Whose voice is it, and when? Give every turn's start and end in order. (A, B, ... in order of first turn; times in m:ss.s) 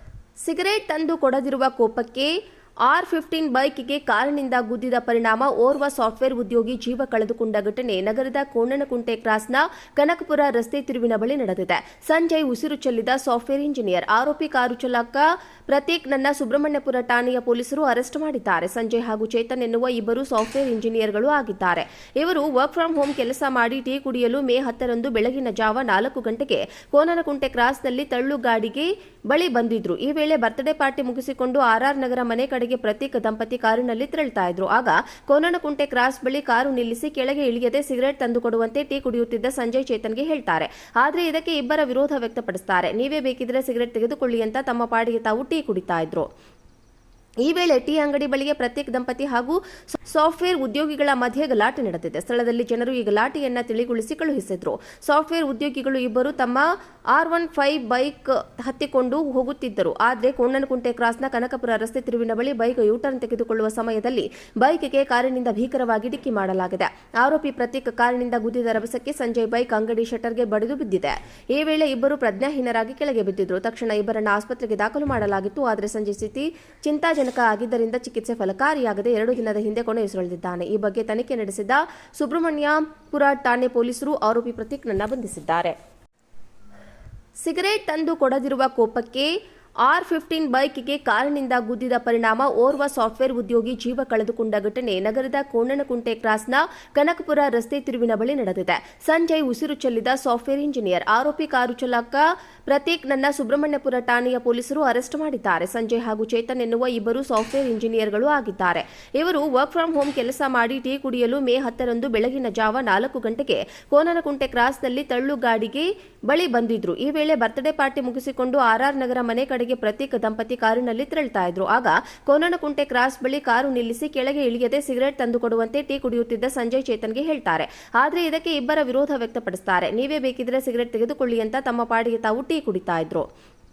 0:00.4-0:02.3 A
0:02.8-0:46.3 A
0:47.4-1:25.8 A
1:27.4-1:29.3 A
1:29.8-2:13.2 A